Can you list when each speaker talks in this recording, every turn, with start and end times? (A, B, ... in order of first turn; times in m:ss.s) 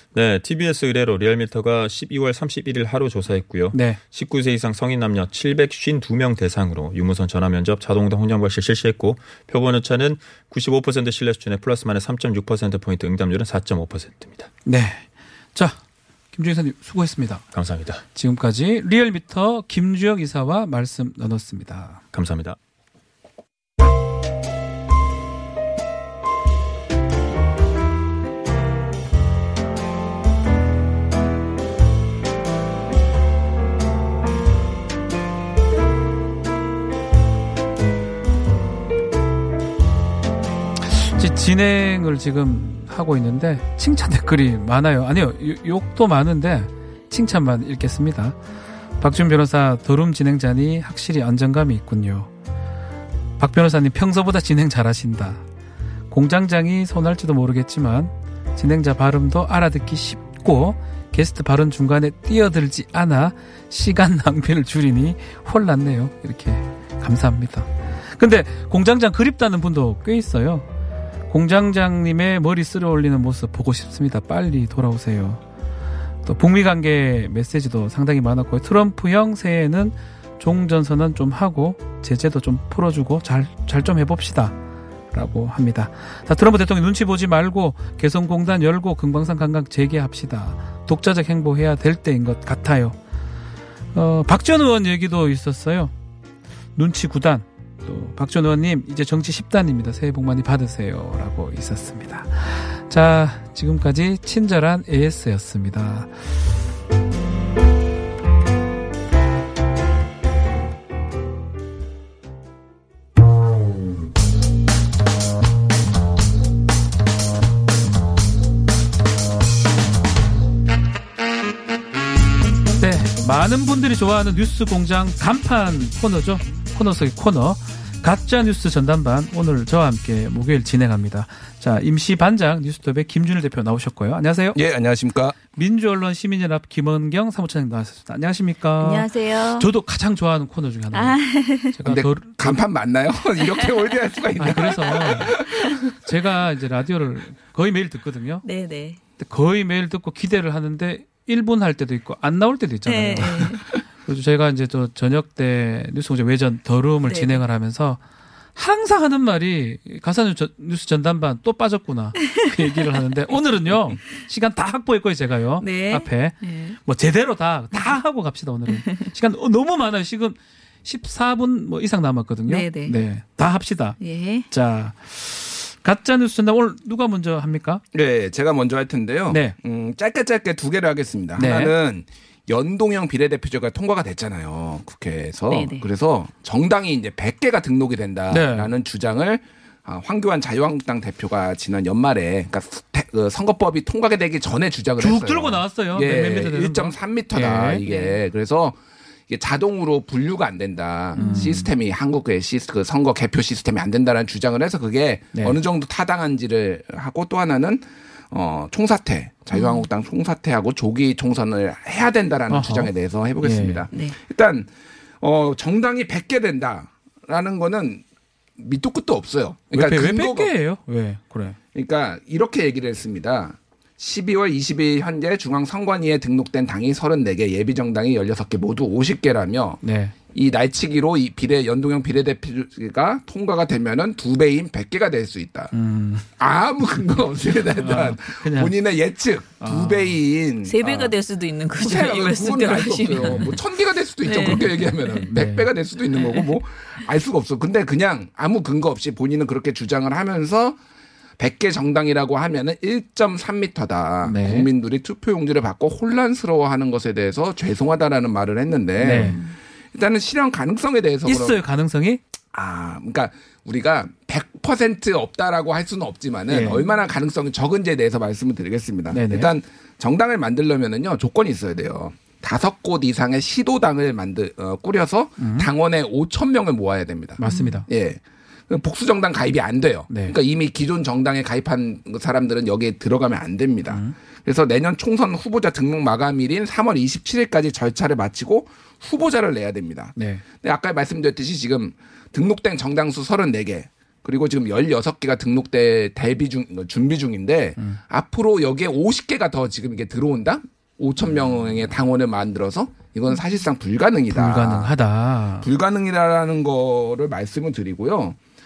0:00.1-0:14.5 A
0:03.7-0:04.0 B
0:14.6-0:15.8 B
0:16.3-0:17.4 B
0:17.5-0:18.0 A
0:18.1-0:22.0 B
0:22.1-0:22.6 A
0:40.8-0:48.4 B
0:49.0-0:52.3 B
0:53.4-0:55.4 B
0:56.1-1:10.7 B
1:11.3-1:15.4 B
1:16.2-1:24.6 B
1:25.1-1:33.0 B
1:33.9-1:35.9 B
1:36.8-1:46.1 B
2:02.8-2:14.6 B
2:14.5-2:15.4 C
2:15.5-2:22.6 B
2:18.8-2:19.7 D
2:20.9-2:21.8 D
2:21.8-2:25.4 C
2:23.4-2:25.7 D
2:24.4-2:25.4 B
2:26.0-2:28.4 B
2:28.4-2:29.0 D
2:29.2-2:38.0 B
2:32.8-2:33.7 D
2:37.0-2:37.4 D
2:38.6-2:57.8 B
2:42.2-2:43.2 D
2:45.6-2:46.8 D
2:48.7-2:49.1 D
2:52.5-2:53.0 D
2:54.0-2:54.5 D
2:57.9-3:18.8 C
2:59.3-2:59.5 B
3:01.4-3:01.7 B
3:05.5-3:05.9 D
3:08.3-3:08.7 B
3:15.0-3:17.8 B
3:17.8-3:18.1 D
3:19.3-3:34.7 C
3:21.2-3:21.6 D
3:21.2-3:21.7 B
3:29.5-3:29.9 D
3:32.5-3:32.9 B
3:33.4-3:33.8 B
3:33.9-3:34.2 D
3:35.2-3:38.0 C
3:38.6-3:40.5 C
3:39.7-3:41.6 B
3:41.7-3:55.7 C
3:49.8-3:50.1 B
3:55.7-3:56.3 B
3:56.4-4:01.1 C
3:57.8-3:58.7 B
3:59.6-4:00.2 B
4:00.6-4:03.6 D
4:01.7-4:10.8 C
4:04.2-4:05.3 D
4:05.3-4:05.7 B
4:06.1-4:06.5 D
4:11.4-4:19.4 C
4:14.2-4:14.7 B
4:19.0-4:19.4 B
4:19.1-4:19.5 D
4:19.9-4:21.6 C
4:21.2-4:22.2 B
4:22.5-5:04.9 C
4:26.5-4:26.8 B
4:26.6-4:27.0 D
4:29.1-4:29.5 B
4:35.4-4:35.7 B
4:37.4-4:37.8 B
4:37.4-4:37.8 D
4:40.1-4:40.3 B
4:43.9-4:44.1 B
4:50.1-4:50.4 B
5:04.3-5:05.7 B
5:05.6-5:08.4 C